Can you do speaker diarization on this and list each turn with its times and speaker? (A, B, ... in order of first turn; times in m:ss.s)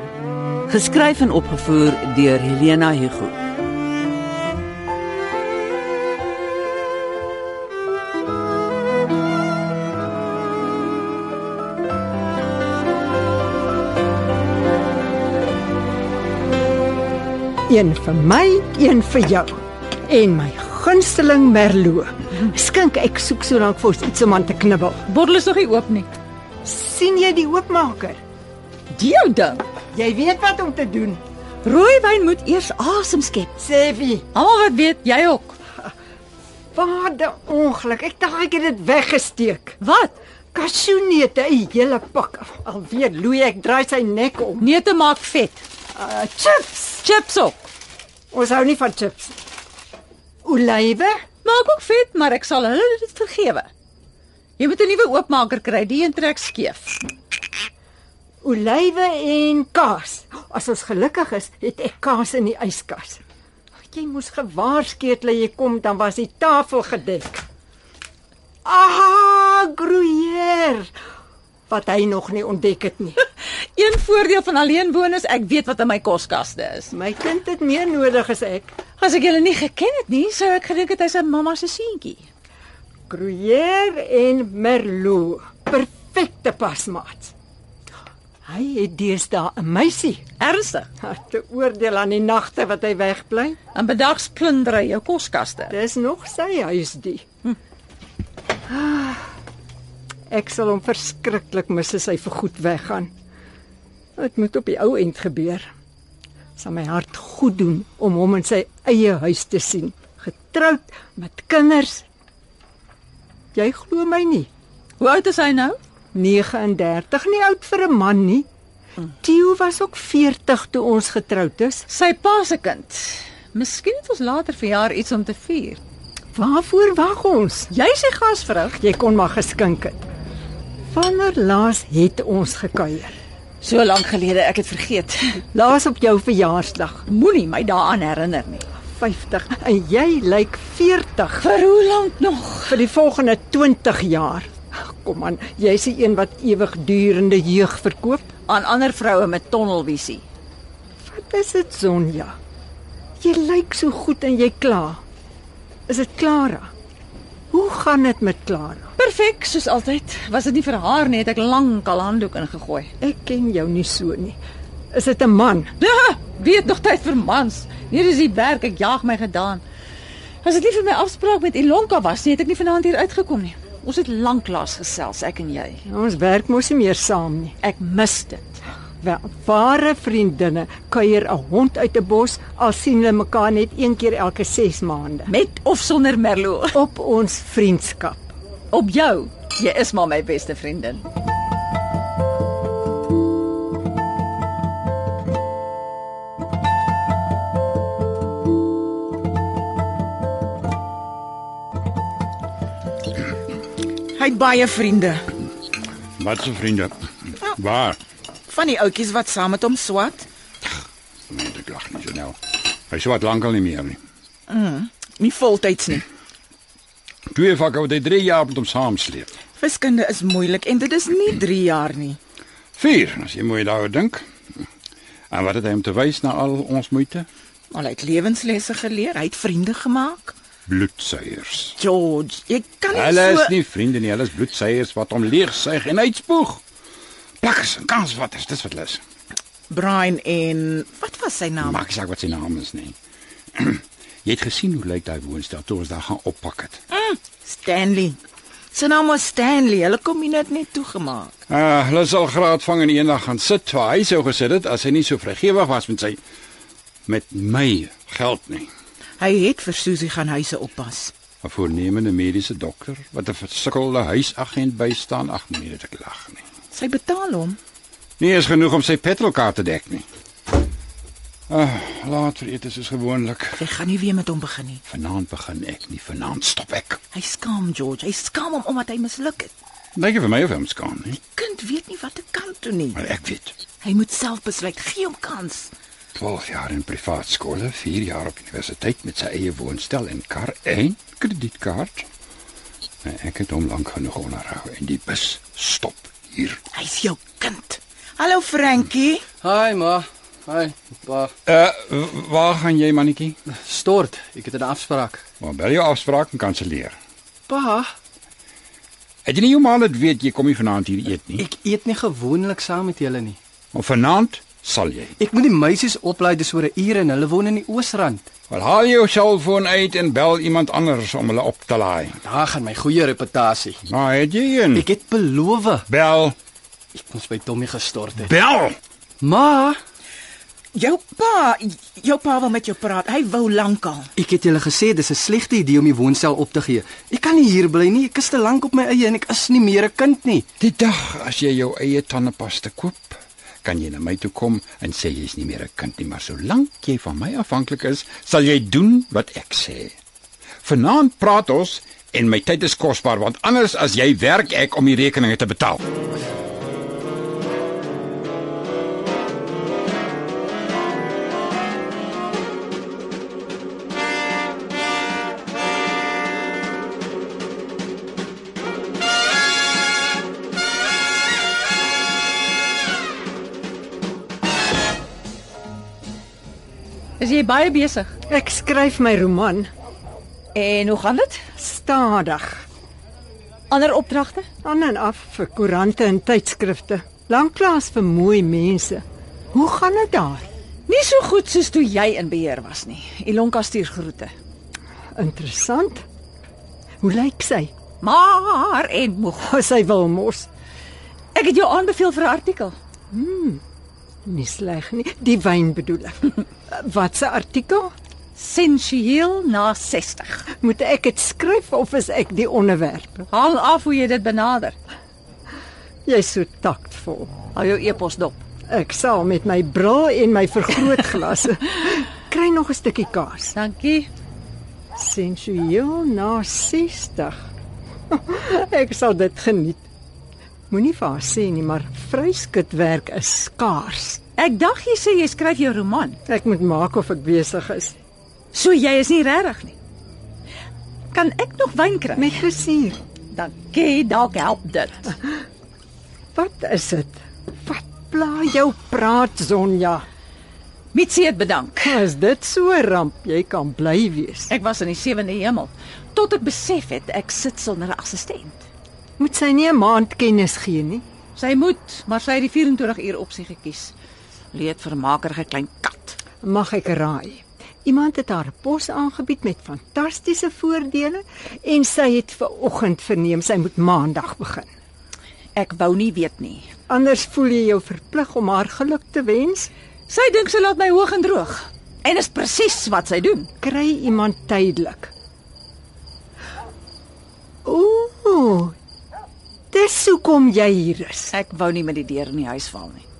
0:00.7-0:03.4 A
0:17.7-0:19.5 B
0:20.1-0:25.0 B
0:25.1-0:26.1 C
0:26.6-0:28.2 B
0:28.9-0:29.6 C
0:29.9-0:31.2 B
0:31.6-0:33.5 C
0:33.5-0:34.2 B
0:34.3-0:35.6 C
0:36.7-0:39.8 B
0:39.8-0:40.1 C
0:40.5-0:44.6 B
0:44.6-0:45.6 C
0:45.9-0:47.0 B
0:47.0-0:47.7 C
0:48.3-0:49.4 B
0:50.4-0:51.1 B
0:51.4-0:53.7 C
0:54.6-0:57.0 C
0:58.4-1:03.2 B
1:03.9-1:07.4 B
1:08.6-1:10.9 B
1:11.7-1:13.2 B
1:13.5-1:16.9 C
1:16.9-1:18.7 B
1:19.0-1:22.2 C
1:23.1-1:27.3 B
1:28.5-1:30.2 B
1:30.4-1:30.9 C
1:31.0-1:33.6 B
1:33.7-1:35.7 C
1:35.7-1:37.2 B
1:38.7-1:39.3 B
1:40.3-1:43.1 B
1:44.2-1:45.7 B
1:46.6-1:52.0 B
1:53.5-1:54.5 B
1:55.0-1:55.8 C
1:56.1-1:58.5 B
1:59.2-2:01.9 B
2:01.9-2:05.8 C
2:06.3-2:07.7 B
2:07.7-2:08.8 C
2:08.8-2:10.0 B
2:10.9-2:13.1 B
2:13.6-2:15.4 C
2:15.5-2:17.0 B
2:17.1-2:18.6 C
2:18.9-2:21.5 B
2:21.4-2:22.8 C
2:22.7-2:28.2 B
2:28.5-2:30.2 C
2:31.1-2:32.3 B
2:33.2-2:35.0 B
2:35.9-2:36.7 B
2:37.5-2:38.9 B
2:39.0-2:42.9 C
2:43.0-2:44.4 B
2:44.9-2:45.7 B
2:45.8-2:49.6 C
2:50.4-2:55.8 C
2:55.9-2:57.5 B
2:57.6-2:58.6 C
2:59.0-3:05.3 B
3:05.3-3:06.8 C
3:06.7-3:08.3 B
3:08.7-3:11.0 C
3:24.1-3:25.3 D
3:26.2-3:28.0 E
3:28.5-3:30.2 D
3:31.3-3:32.4 E
3:32.9-3:34.0 E
3:34.5-3:36.0 D
3:37.3-3:39.3 E
3:39.6-3:42.2 D
3:42.8-3:44.2 E
3:45.3-3:47.3 E
3:47.7-3:50.3 D
3:50.7-3:51.8 E
3:51.8-3:53.5 D
3:52.9-3:56.6 E
3:57.4-3:59.0 E
3:59.7-4:01.8 D
4:01.6-4:03.0 E
4:03.6-4:06.8 E
4:06.9-4:08.2 D
4:08.7-4:11.3 D
4:11.5-4:16.2 E
4:17.1-4:18.7 E
4:19.2-4:21.1 D
4:21.4-4:26.4 E
4:26.7-4:27.6 D
4:28.2-4:30.0 E
4:31.5-4:33.6 E
4:33.6-4:34.8 D
4:34.9-4:37.0 E
4:37.1-4:39.5 D
4:39.9-4:41.2 E
4:41.4-4:43.0 D
4:42.9-4:43.6 E
4:43.8-4:45.7 D
4:46.2-4:52.0 E
4:53.0-4:56.6 E
4:56.7-4:59.2 D
4:59.4-5:01.3 F
5:01.4-5:03.4 E
5:03.5-5:05.2 F
5:05.4-5:07.0 E
5:07.5-5:07.9 F
5:09.2-5:11.5 E
5:11.4-5:13.4 F
5:13.7-5:15.1 E
5:15.2-5:18.3 F
5:18.5-5:22.2 E
5:22.2-5:23.8 F
5:23.9-5:24.8 E
5:24.7-5:25.9 F
5:25.9-5:26.3 E
5:26.9-5:28.3 F
5:28.2-5:28.8 E
5:29.2-5:29.8 F
5:30.7-5:34.1 D
5:34.2-5:40.4 F
5:40.6-5:49.9 E
5:50.6-5:55.8 E
6:17.2-6:18.1 C
6:18.3-6:19.7 B
6:20.5-6:21.4 C
6:21.6-6:22.6 B
6:23.7-6:24.4 C
6:24.6-6:30.4 B
6:30.9-6:34.3 C
6:35.2-6:36.0 B
6:37.0-6:37.7 B
6:38.0-6:39.5 C
6:39.4-6:40.5 B
6:41.3-6:42.7 C
6:43.1-6:43.6 B
6:44.2-6:47.9 B
6:48.4-6:50.4 C
6:50.6-6:53.3 B
6:53.3-6:54.7 C
6:56.1-6:57.3 B
6:57.5-6:58.4 C
6:58.7-7:03.5 B
7:03.5-7:04.1 C
7:05.0-7:07.3 B
7:08.1-7:09.8 B
7:10.7-7:14.2 B
7:14.4-7:16.2 C
7:16.3-7:17.9 B
7:18.5-7:19.7 C
7:21.1-7:22.4 C
7:22.2-7:23.0 B
7:23.3-7:25.1 C
7:26.3-7:30.0 B
7:30.9-7:32.0 C
7:31.8-7:34.5 B
7:34.5-7:38.6 C
7:39.2-7:41.0 B
7:41.4-7:43.9 C
7:44.5-7:46.2 C
7:46.4-7:54.7 B
7:55.6-7:56.7 C
7:56.9-7:59.7 B
8:00.1-8:03.5 C
8:03.6-8:05.1 B
8:07.6-8:08.7 B
8:09.7-8:11.3 B
8:11.3-8:13.0 C